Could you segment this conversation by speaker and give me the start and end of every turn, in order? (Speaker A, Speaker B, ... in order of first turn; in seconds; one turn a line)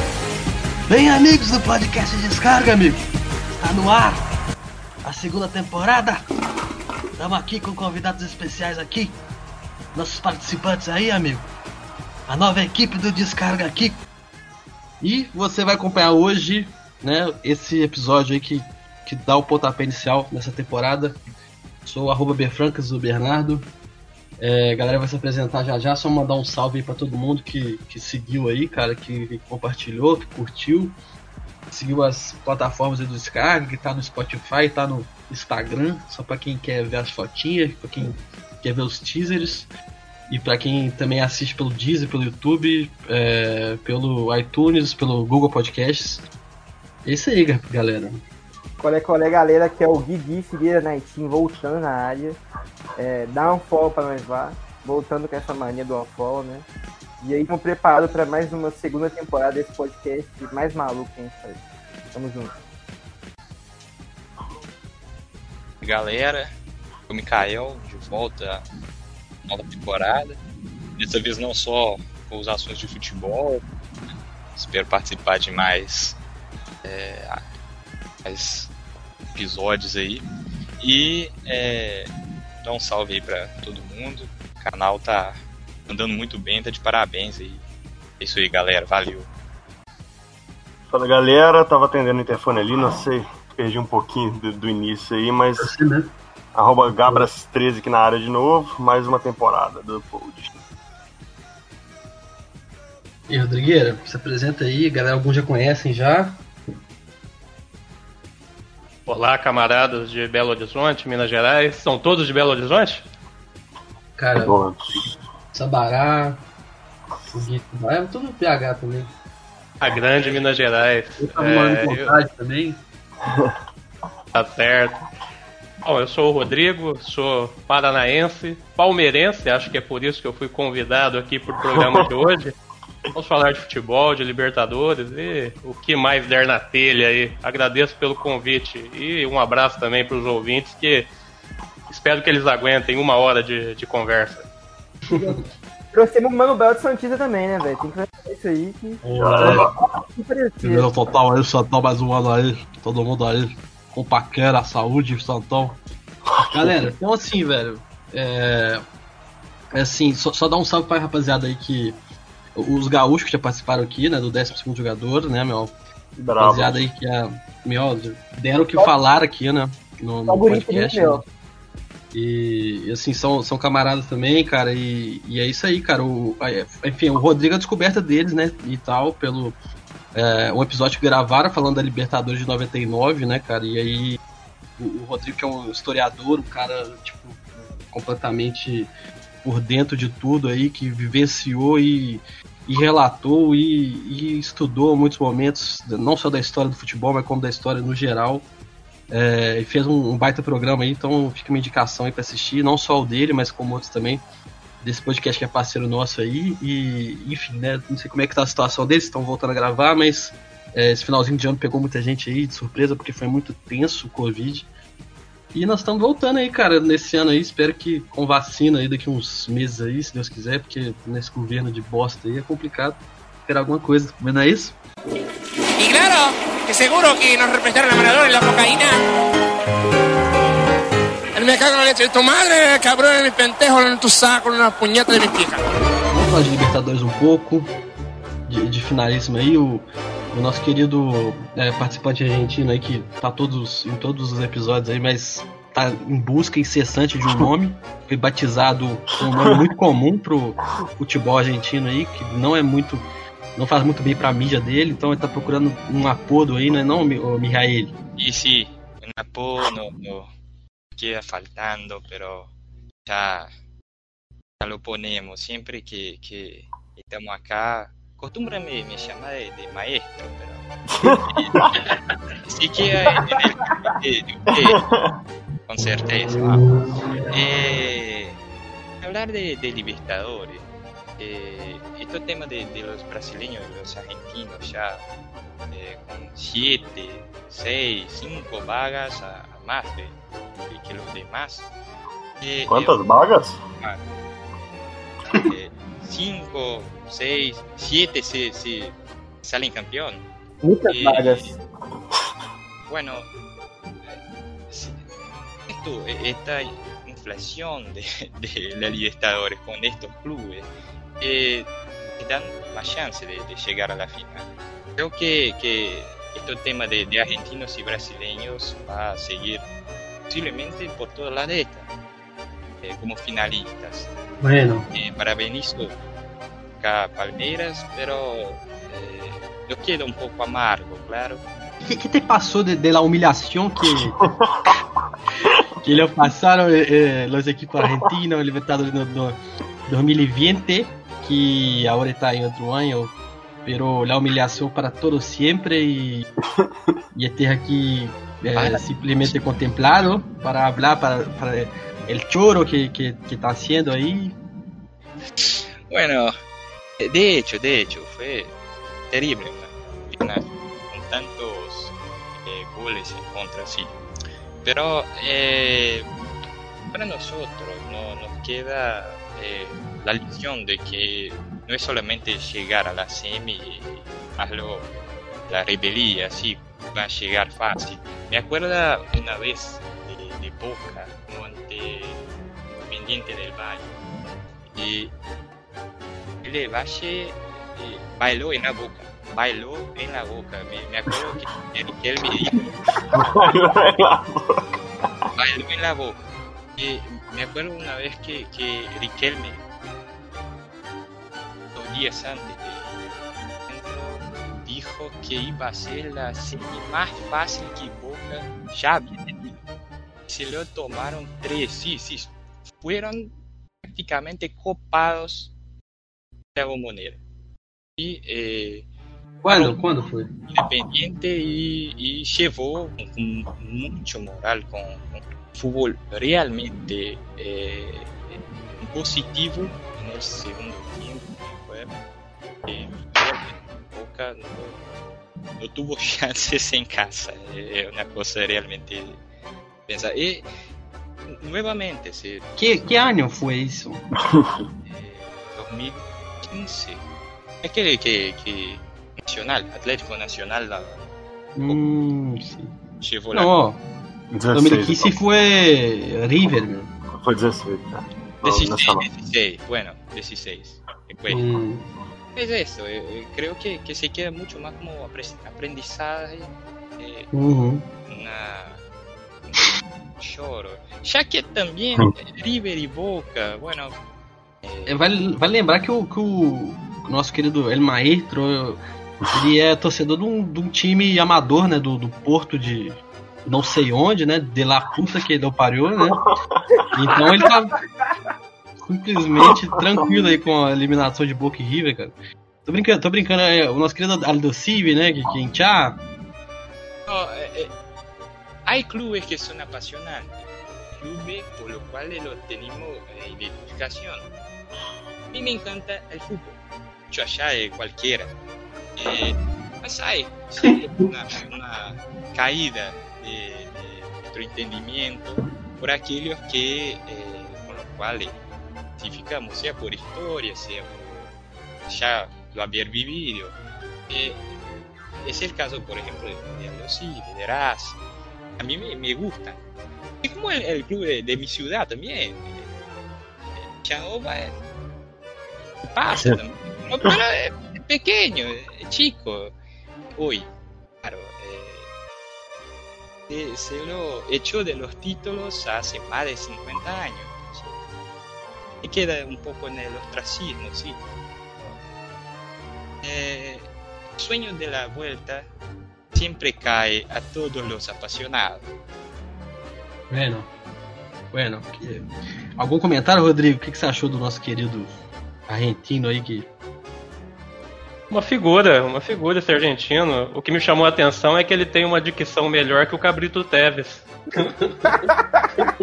Speaker A: 0.9-4.2
Speaker A: 5.0-6.2
Speaker A: 7.2-9.2
Speaker A: 9.9-11.5
Speaker A: 12.3-14.0
Speaker A: 15.0-21.2
Speaker A: 21.8-23.7
Speaker A: 24.4-31.0
Speaker A: 31.7-39.7
Speaker A: 40.3-46.3
Speaker A: 47.0-48.2
Speaker B: 48.8-52.4
Speaker B: 53.0-56.7
Speaker B: 57.2-62.5
Speaker C: 65.8-66.5
Speaker C: 67.1-68.6
Speaker C: 69.5-70.4
Speaker C: 71.0-73.6
Speaker C: 74.5-76.2
Speaker C: 76.8-77.4
Speaker C: 78.2-78.7
Speaker C: 79.3-80.2
Speaker C: 80.8-82.1
Speaker C: 82.6-85.3
Speaker C: 85.9-87.6
Speaker C: 88.2-89.3
Speaker D: 90.9-95.7
Speaker A: 95.6-96.1
Speaker D: 96.5-100.5
Speaker A: 97.0-97.3
Speaker A: 103.3-106.4
Speaker E: 109.1-113.0
Speaker A: 114.2-114.6
Speaker D: 114.4-115.1
Speaker A: 115.5-116.4
Speaker A: 117.3-119.1
Speaker E: 119.8-122.2
Speaker A: 121.2-122.8
Speaker D: 123.2-123.5
Speaker E: 124.3-125.0
Speaker E: 125.8-132.6
Speaker E: 133.1-141.1
Speaker E: 141.9-144.5
Speaker B: 145.2-145.4
Speaker B: 145.9-150.9
Speaker A: 149.0-149.7
Speaker D: 149.1-149.7
Speaker A: 150.6-155.8
Speaker D: 156.3-156.9
Speaker A: 156.5-158.8
Speaker A: 159.7-162.0
Speaker A: 162.6-165.8
Speaker D: 166.2-166.8
Speaker A: 166.4-171.2
Speaker B: 170.3-171.2
Speaker A: 172.1-179.6
Speaker A: 180.1-184.2
Speaker A: 184.8-188.9
Speaker A: 189.4-198.5
Speaker A: 199.1-204.2
Speaker A: 204.8-214.7
Speaker A: 215.5-224.8
Speaker F: 225.8-229.0
Speaker F: 231.3-235.6
Speaker A: 236.1-237.7
Speaker A: 238.5-257.9
Speaker C: 258.1-260.3
Speaker C: 260.9-262.5
Speaker C: 263.0-263.5
Speaker C: 264.6-271.5
Speaker D: 270.9-271.9
Speaker C: 272.4-274.8
Speaker D: 274.5-275.1
Speaker C: 275.7-276.6
Speaker C: 277.3-278.4
Speaker C: 279.0-280.7
Speaker C: 281.2-285.0
Speaker C: 285.7-291.7
Speaker C: 292.4-293.0
Speaker D: 292.7-293.6
Speaker C: 295.3-300.2
Speaker B: 300.6-301.6
Speaker C: 300.8-301.5
Speaker C: 302.9-303.3
Speaker C: 304.7-305.0
Speaker C: 305.7-310.7
Speaker C: 311.2-319.6
Speaker C: 320.3-321.9
Speaker C: 322.8-324.1
Speaker A: 324.4-324.9
Speaker C: 324.9-325.9
Speaker C: 326.8-331.4
Speaker A: 331.8-334.2
Speaker D: 334.1-334.6
Speaker A: 335.8-346.3
Speaker A: 347.1-354.4
Speaker C: 348.5-349.3
Speaker C: 355.4-356.3
Speaker C: 357.0-358.5
Speaker C: 359.1-361.9
Speaker C: 362.4-363.9
Speaker C: 364.6-366.1
Speaker C: 366.9-374.9
Speaker C: 375.5-382.2
Speaker C: 382.8-383.9
Speaker C: 384.7-385.1
Speaker C: 386.4-392.9
Speaker D: 393.1-394.6
Speaker C: 395.4-396.2
Speaker C: 396.8-399.6
Speaker C: 401.8-403.1
Speaker C: 403.7-409.6
Speaker C: 410.3-413.3
Speaker C: 413.8-415.5
Speaker C: 416.5-417.2
Speaker C: 418.0-418.8
Speaker A: 419.4-420.3
Speaker C: 419.5-419.8
Speaker C: 420.5-431.9
Speaker C: 432.6-434.8
Speaker C: 435.6-439.2
Speaker C: 439.9-440.5
Speaker C: 441.3-442.9
Speaker A: 442.6-444.0
Speaker C: 444.9-447.0
Speaker C: 447.6-451.0
Speaker A: 451.5-452.7
Speaker C: 453.0-453.5
Speaker A: 453.3-453.8
Speaker D: 454.3-455.1
Speaker A: 454.5-456.9
Speaker D: 457.2-459.1
Speaker C: 458.4-461.5
Speaker A: 461.3-461.9
Speaker C: 462.4-467.3
Speaker A: 467.3-467.8
Speaker C: 468.1-468.8
Speaker C: 470.2-473.9
Speaker C: 474.6-475.0
Speaker A: 474.9-478.8
Speaker A: 479.3-486.2
Speaker A: 486.9-487.8
Speaker A: 488.8-496.0
Speaker C: 497.1-497.7
Speaker C: 498.6-500.4
Speaker C: 501.0-504.3
Speaker C: 505.3-506.6
Speaker C: 507.1-508.3
Speaker C: 508.9-518.4
Speaker C: 519.0-521.3
Speaker C: 521.9-523.6
Speaker C: 524.1-524.4
Speaker C: 525.2-528.0
Speaker C: 528.6-529.6
Speaker C: 530.2-532.7
Speaker C: 533.6-534.5
Speaker C: 535.9-539.5
Speaker C: 540.2-540.5
Speaker C: 541.0-541.9
Speaker C: 543.3-547.8
Speaker C: 548.8-551.0
Speaker C: 553.0-555.5
Speaker C: 556.1-558.7
Speaker A: 560.1-560.5
Speaker A: 561.3-562.0
Speaker A: 562.6-566.5
Speaker E: 568.1-574.0
Speaker B: 574.9-575.7